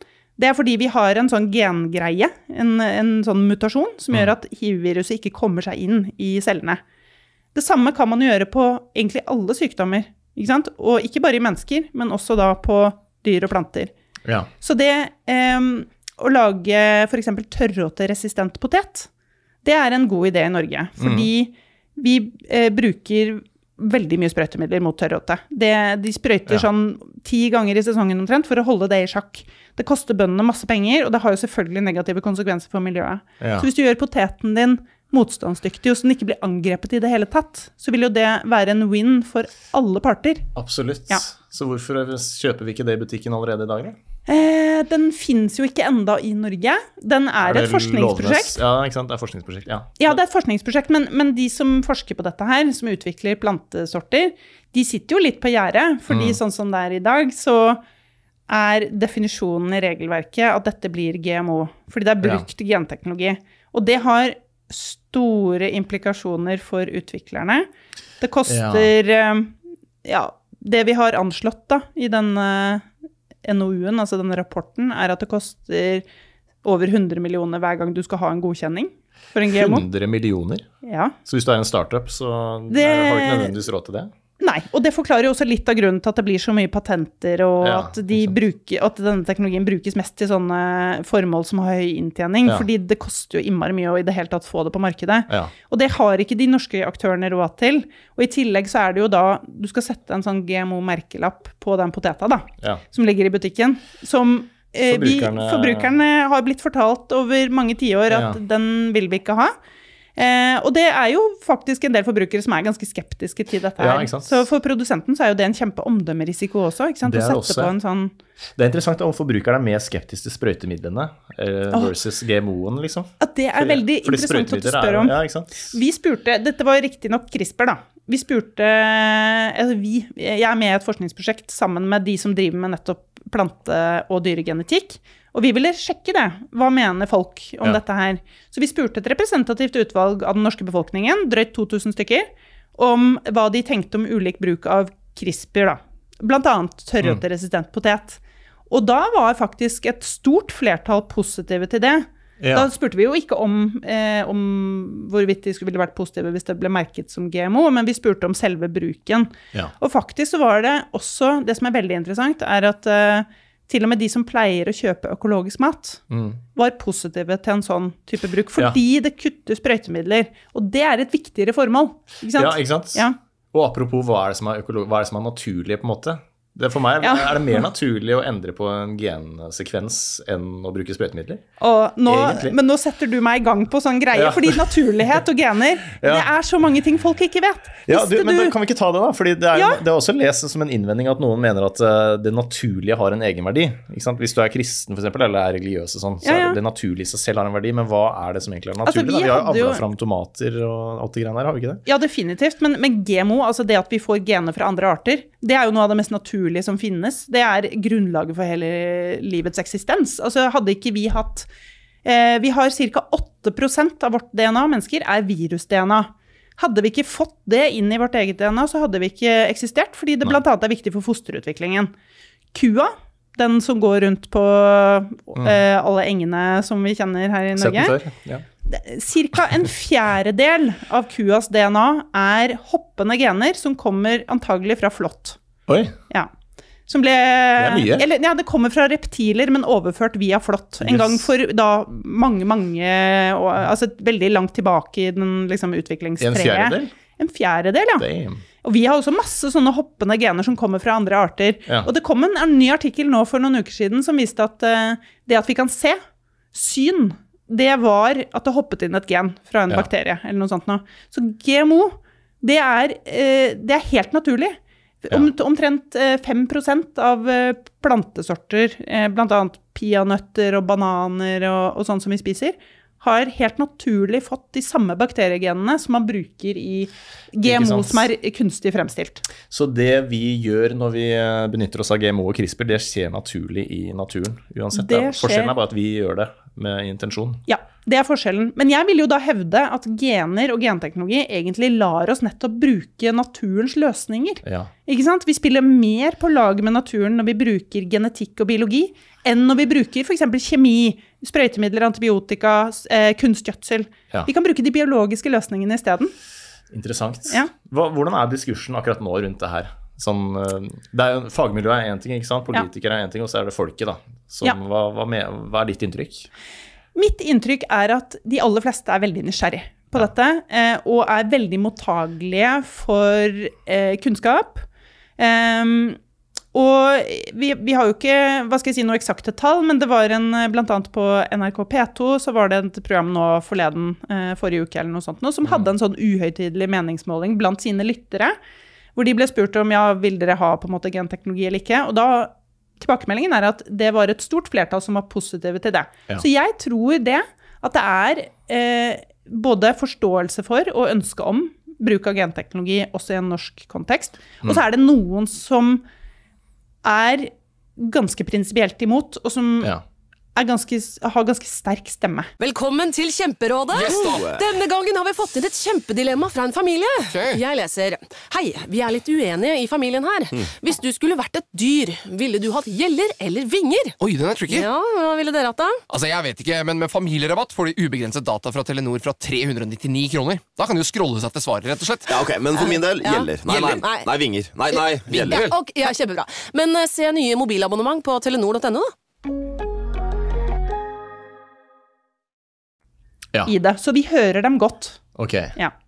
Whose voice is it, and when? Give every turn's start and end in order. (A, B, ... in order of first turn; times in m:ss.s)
0:00.4-0:06.8 A
0:07.6-0:13.9 A
0:14.2-0:14.5 B
0:14.6-0:19.1 A
0:19.6-0:40.5 A
0:21.0-0:21.3 B
0:33.4-0:33.7 B
0:40.6-0:44.0 B
0:44.3-0:48.6 A
0:47.4-0:50.2 B
0:50.0-0:57.8 A
0:56.1-0:56.4 B
0:58.5-1:07.7 A
1:08.2-1:12.9 A
1:08.5-1:08.9 B
1:13.4-1:16.0 A
1:16.6-1:19.8 A
1:19.5-1:20.7 B
1:20.8-1:21.2 A
1:21.2-1:24.1 B
1:22.7-1:23.6 A
1:24.4-1:49.6 A
1:27.6-1:28.4 B
1:44.8-1:45.9 B
1:48.1-1:48.4 B
1:50.2-1:58.2 A
1:53.8-1:54.4 B
1:57.0-1:57.7 B
1:58.6-2:05.8 B
2:03.2-2:46.0 A
2:32.4-2:32.7 B
2:46.1-2:46.4 B
2:46.6-2:53.2 A
2:52.4-3:01.4 B
2:57.0-2:57.7 A
3:01.6-3:08.5 A
3:02.0-3:02.6 B
3:04.1-3:05.2 B
3:05.9-3:06.3 B
3:07.8-3:21.8 B
3:09.5-3:09.8 A
3:16.2-3:16.6 A
3:18.8-3:19.8 A
3:21.9-3:31.5 A
3:32.0-3:41.9 A
3:42.5-3:48.0 A
3:47.6-3:48.4 B
3:48.7-3:55.4 A
3:55.7-3:56.0 B
3:56.9-4:08.1 A
3:57.6-3:58.1 B
4:00.8-4:01.3 B
4:06.2-4:06.9 B
4:08.0-4:08.4 B
4:08.6-4:16.0 A
4:16.5-4:39.2 A
4:37.4-4:38.1 B
4:39.5-4:47.4 B
4:44.7-4:45.6 A
4:47.5-5:06.1 A
4:54.4-4:54.7 B
5:06.7-5:16.3 B
5:17.0-5:24.7 A
5:25.2-5:26.0 A
5:26.5-5:38.4 A
5:39.0-5:55.8 A
5:56.8-5:59.7 A
6:00.4-6:02.3 A
6:02.4-6:14.0 C
6:03.7-6:04.2 D
6:03.8-6:04.5 E
6:07.1-6:07.4 D
6:14.0-6:14.7 D
6:14.5-6:15.8 C
6:15.9-6:22.2 D
6:22.1-6:25.5 E
6:22.6-6:24.1 C
6:24.7-6:28.9 C
6:33.5-6:35.0 A
6:35.2-6:35.5 B